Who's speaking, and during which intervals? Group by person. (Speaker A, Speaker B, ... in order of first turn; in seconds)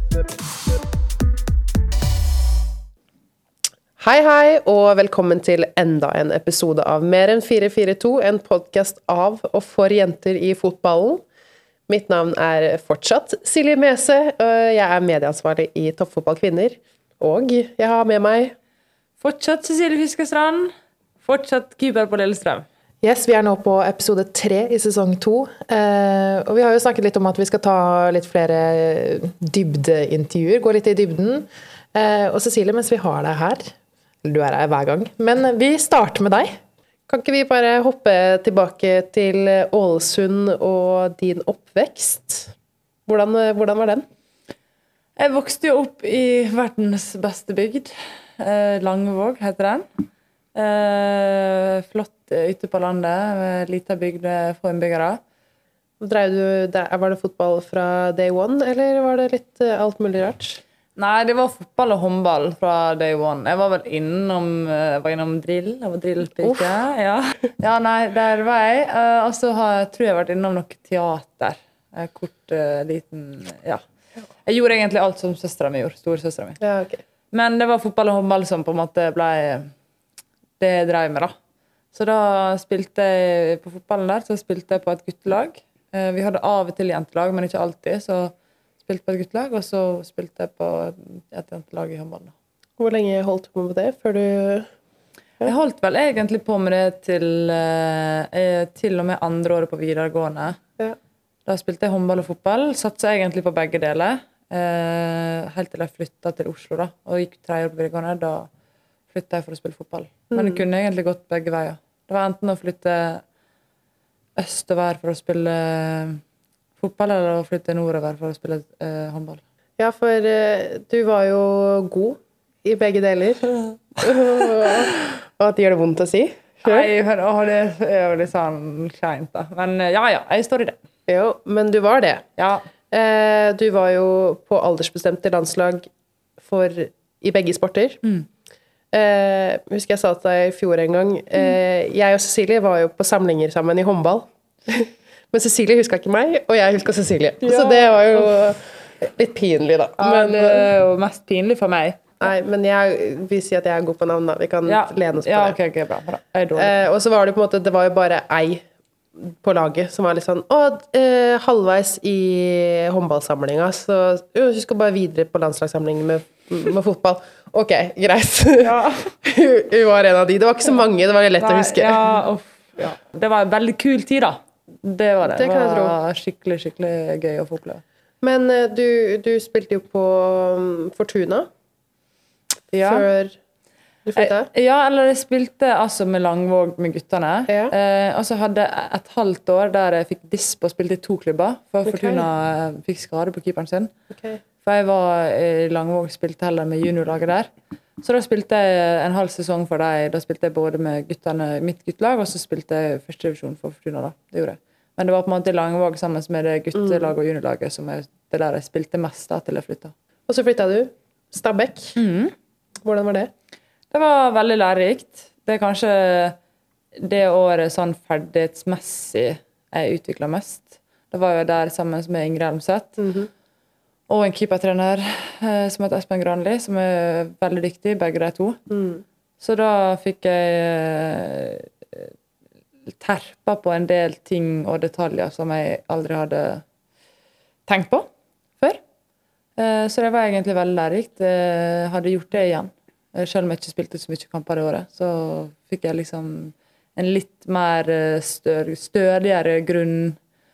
Speaker A: 4.0-11.2, 11.9-18.5, 37.1-42.5, 43.0-44.0, 56.0-60.6, 76.6-77.0, 92.8-94.7, 110.3-110.6, 119.8-126.9, 131.1-132.2, 132.9-135.9, 136.4-138.0, 138.9-150.7, 152.2-155.6, 156.6-172.0, 175.2-176.0, 178.2-181.5, 182.7-183.4, 184.0-184.5, 187.5-187.7, 191.8-192.3, 194.1-194.4, 210.3-211.9, 212.8-213.3, 223.0-223.3, 228.7-229.0
Speaker B: 19.2-20.7, 21.2-22.6, 45.2-49.9, 50.5-55.2, 61.0-73.8, 74.5-76.6, 77.3-79.7, 80.6-81.3, 81.9-88.3, 88.8-92.3, 95.4-100.6, 101.5-108.5, 109.1-113.2, 114.4-116.2, 116.8-119.4, 126.6-130.8, 132.4-132.6, 147.4-148.3, 150.0-152.2, 154.7-156.8, 168.6-169.1, 171.4-177.8, 182.7-183.1, 184.2-193.9, 194.6-197.5, 198.0-209.9, 211.9-212.3, 213.9-216.4, 217.0-223.0, 224.1-228.6, 229.4-232.1, 233.0-236.6, 237.7-238.1, 239.6-250.2
Speaker C: 23.0-36.6